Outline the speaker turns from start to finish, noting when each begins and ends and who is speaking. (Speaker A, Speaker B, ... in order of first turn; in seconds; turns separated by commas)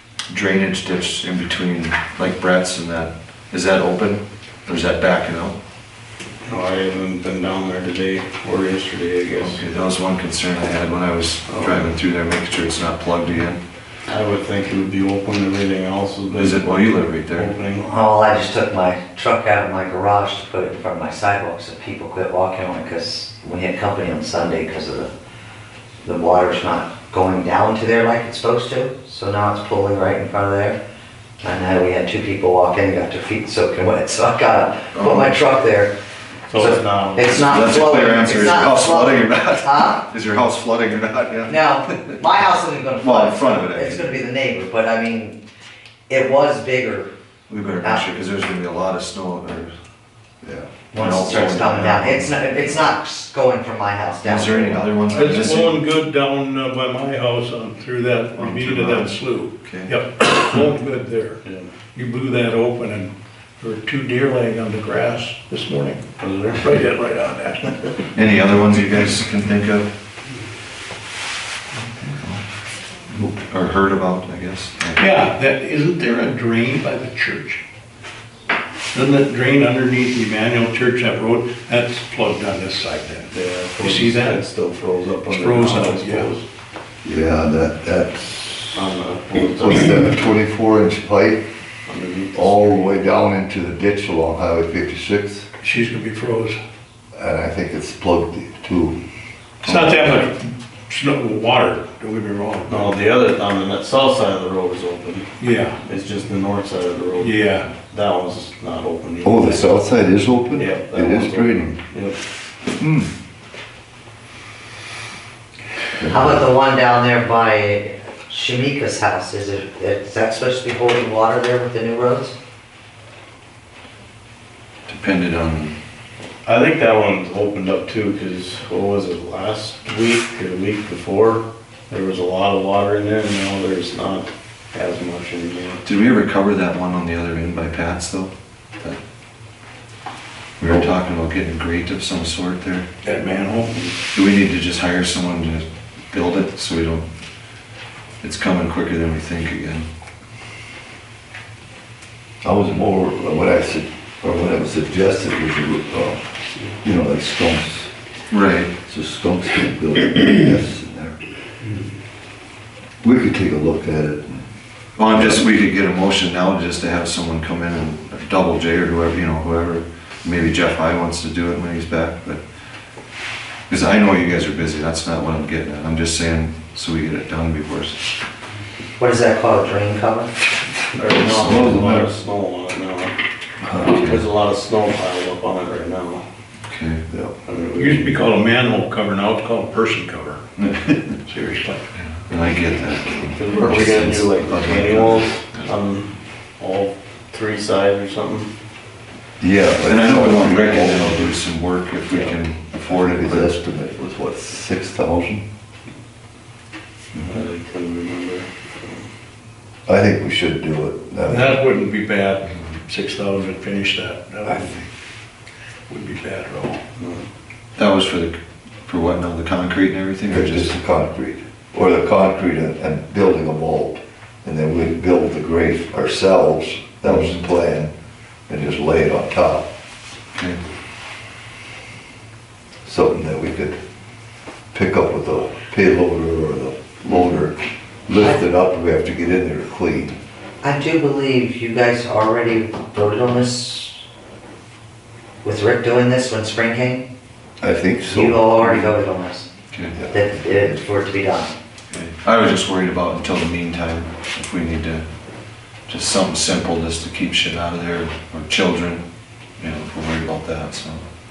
Speaker A: 0.3-5.6, Speaker B: 6.5-9.6, Speaker A: 9.4-13.6, Speaker B: 11.5-11.9, Speaker B: 14.1-17.9, Speaker A: 16.3-17.5, Speaker C: 17.8-25.1, Speaker C: 26.0-30.8, Speaker C: 31.4-36.0, Speaker A: 34.9-35.3, Speaker B: 36.5-37.5, Speaker C: 36.5-40.0, Speaker A: 37.3-42.2, Speaker C: 41.5-45.4, Speaker A: 43.0-44.2, Speaker C: 46.1-47.1, Speaker A: 47.5-49.7, Speaker D: 50.4-50.7, Speaker C: 50.9-54.9, Speaker A: 50.9-52.8, Speaker A: 54.2-55.8, Speaker E: 55.1-66.0, Speaker A: 58.4-59.9, Speaker B: 61.4-61.7, Speaker B: 66.2-66.6, Speaker E: 66.6-68.0, Speaker A: 68.1-69.9, Speaker A: 71.8-72.4, Speaker A: 73.2-75.0, Speaker E: 75.0-77.6, Speaker E: 78.9-84.4, Speaker B: 83.3-86.5, Speaker E: 85.3-86.3, Speaker D: 87.0-88.8, Speaker B: 88.7-90.1, Speaker D: 89.6-91.5, Speaker B: 91.9-92.7, Speaker D: 92.3-95.5, Speaker E: 95.6-96.6, Speaker D: 97.1-99.0, Speaker E: 99.6-102.9, Speaker D: 99.7-99.9, Speaker B: 102.7-105.3, Speaker E: 105.4-105.8, Speaker B: 105.8-109.7, Speaker E: 107.2-107.7, Speaker D: 109.2-111.8, Speaker B: 110.5-112.2, Speaker D: 112.8-113.1, Speaker D: 116.0-116.5, Speaker C: 116.1-122.3, Speaker A: 124.9-125.8, Speaker B: 126.5-135.8, Speaker A: 135.8-139.0, Speaker A: 140.6-142.9, Speaker E: 143.0-143.7, Speaker A: 144.1-147.1, Speaker A: 148.2-149.9, Speaker D: 152.4-156.2, Speaker D: 156.8-157.9, Speaker A: 158.3-158.7, Speaker D: 158.8-161.2, Speaker D: 163.0-164.4, Speaker A: 165.0-172.4, Speaker D: 165.1-165.5, Speaker A: 173.7-178.0, Speaker C: 179.0-180.3, Speaker B: 180.9-183.1, Speaker D: 181.1-182.1, Speaker A: 183.8-184.2, Speaker B: 184.0-186.2, Speaker A: 186.7-187.1, Speaker D: 187.1-187.4, Speaker B: 187.4-188.3, Speaker E: 187.8-190.7, Speaker E: 191.3-191.8, Speaker A: 192.0-195.7, Speaker B: 193.3-198.5, Speaker D: 199.4-201.3, Speaker A: 199.8-203.6, Speaker D: 202.8-205.5, Speaker B: 207.2-209.1, Speaker D: 209.9-211.6, Speaker E: 211.3-214.8, Speaker D: 214.5-214.8, Speaker E: 215.9-216.8, Speaker B: 217.0-217.3, Speaker A: 217.8-220.7, Speaker D: 220.3-227.9, Speaker A: 227.1-227.4, Speaker D: 228.5-229.7, Speaker A: 230.3-230.6, Speaker D: 232.8-233.8, Speaker D: 234.7-240.2, Speaker C: 240.6-244.0, Speaker C: 245.4-247.1, Speaker D: 247.6-248.9, Speaker C: 248.1-249.5, Speaker D: 249.9-250.8, Speaker C: 250.1-251.6, Speaker A: 251.9-255.0, Speaker A: 255.9-259.0, Speaker A: 259.6-261.1